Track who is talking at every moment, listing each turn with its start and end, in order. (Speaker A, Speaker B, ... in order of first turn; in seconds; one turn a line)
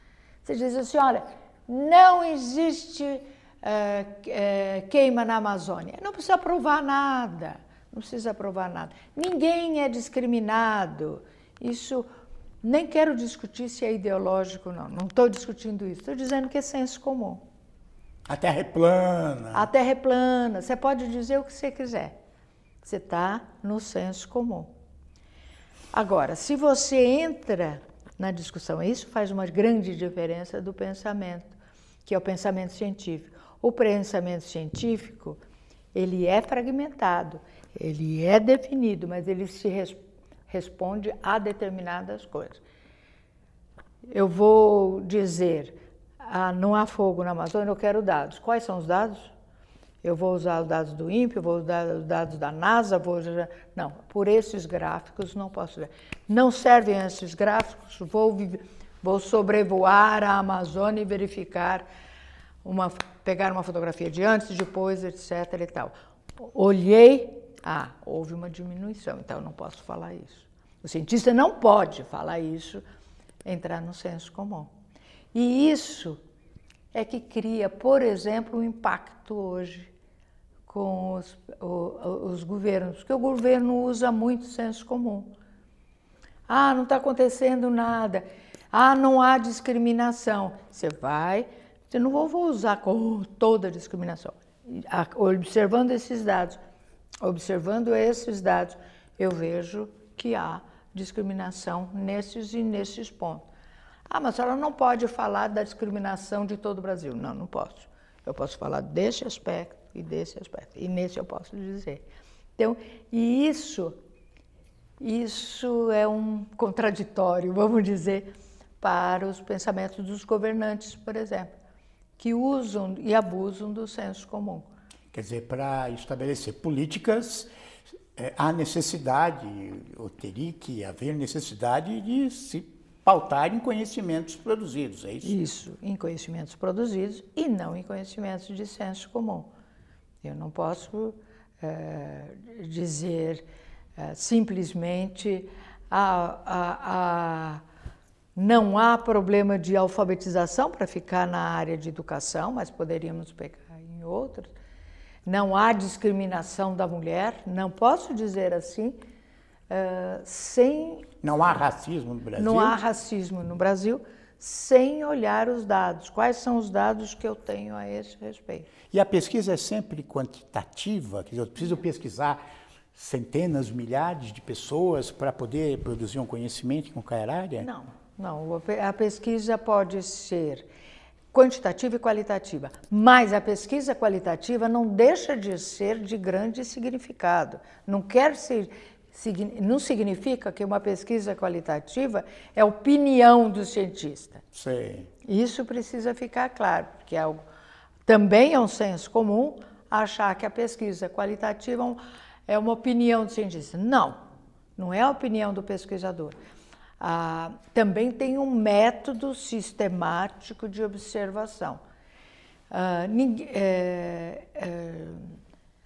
Speaker A: 0.4-12.1
Speaker A: 12.6-17.4
Speaker B: 18.3-19.7
Speaker A: 19.5-22.1
Speaker A: 22.8-24.7
Speaker A: 25.9-35.4
Speaker A: 35.9-42.6
Speaker A: 44.1-49.3
Speaker A: 50.0-61.9
Speaker A: 62.6-72.8
Speaker A: 73.5-74.7
Speaker A: 75.3-76.2
Speaker A: 76.9-79.9
Speaker A: 80.7-85.3
Speaker A: 86.5-96.6
Speaker A: 97.2-103.4
Speaker A: 104.1-112.0
Speaker A: 112.6-114.0
Speaker A: 115.0-121.5
Speaker A: 122.2-124.7
Speaker B: 125.1-127.5
Speaker B: 128.2-135.4
Speaker A: 135.2-139.5
Speaker A: 140.2-143.4
Speaker A: 144.0-147.6
Speaker A: 148.4-154.5
Speaker A: 155.2-159.0
Speaker A: 159.7-161.1
Speaker B: 161.2-162.8
Speaker A: 162.4-168.7
Speaker B: 168.9-172.4
Speaker B: 172.9-177.7
Speaker A: 177.6-180.7
Speaker A: 181.3-194.4
Speaker B: 194.5-195.1
Speaker A: 195.2-197.4
Speaker A: 198.1-204.2
Speaker A: 204.8-206.4
Speaker A: 207.0-211.8
Speaker A: 212.7-215.4